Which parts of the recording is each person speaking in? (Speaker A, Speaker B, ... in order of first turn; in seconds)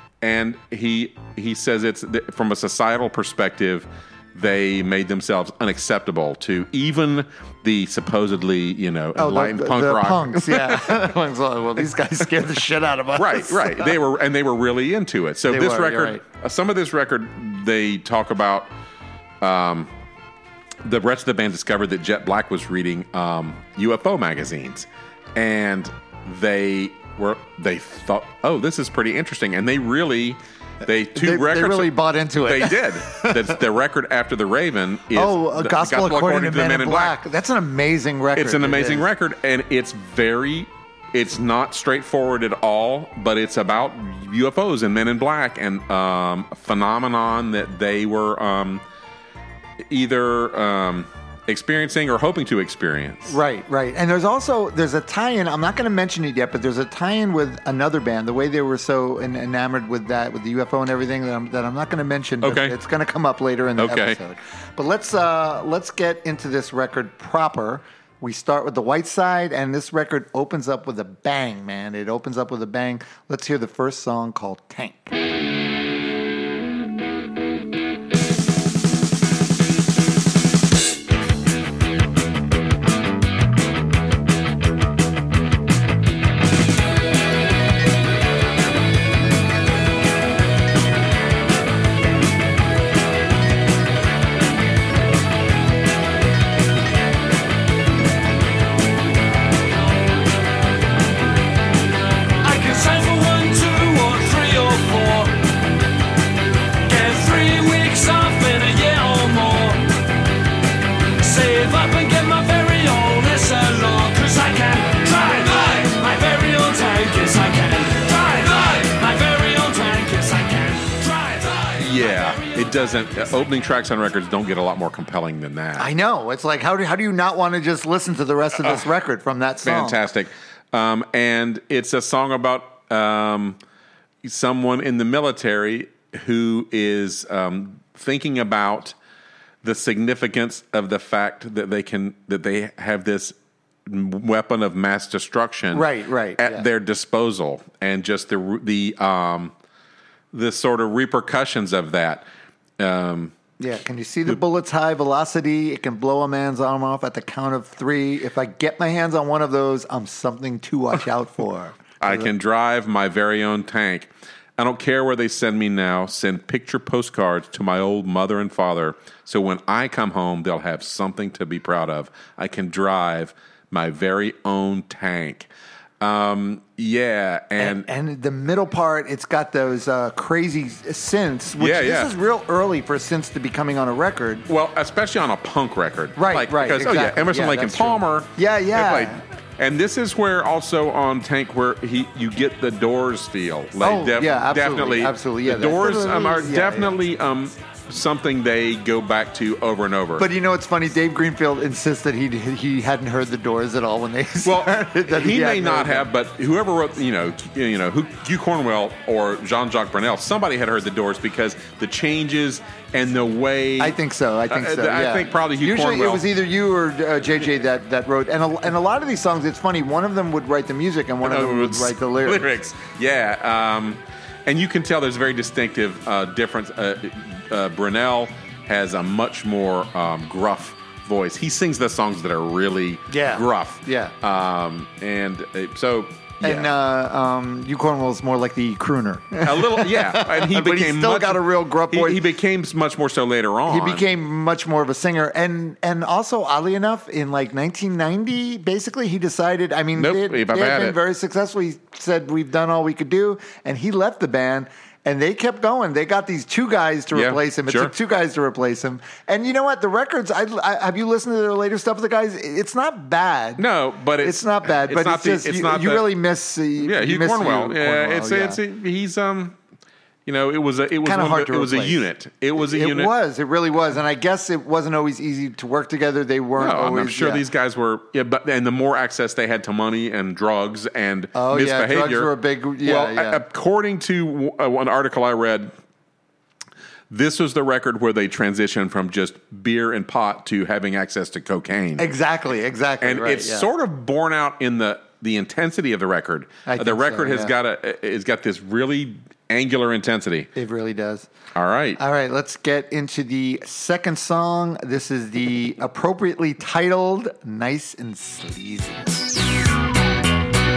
Speaker A: 0.2-11.1, 13.2-18.7, 19.4-19.9, 20.8-37.2, 38.4-48.8, 49.9-53.3, 62.4-62.8, 63.8-64.2, 121.8-125.9, 129.6-133.6, 134.2-138.9, 139.6-143.3, 143.9-149.5, 150.3-152.3, 152.8-153.3, 162.0-175.5, 176.0-177.9, 181.6-182.1, 184.5-200.3, 204.4-214.0, 214.5-216.3, 221.2-236.7, 239.4-244.1, 250.0-251.0, 257.1-257.9, 263.6-266.1, 266.8-269.6, 270.3-273.1, 276.6-285.7, 287.1-292.1, 293.0-300.5, 301.6-302.0
Speaker B: 9.2-14.0, 15.5-16.2, 31.1-33.6, 35.1-39.1, 53.3-75.1, 125.8-130.0, 145.7-146.7, 153.6-162.3, 177.6-184.5, 186.2-189.2, 193.8-197.0, 200.2-206.1, 213.8-222.5, 233.1-234.1, 236.4-242.2, 243.7-263.6, 264.2-268.6, 271.0-277.4, 281.4-283.4, 292.0-293.7, 296.7-297.5, 300.6-301.3, 302.0-309.3
Speaker C: 102.4-105.4, 106.9-109.9, 111.2-122.5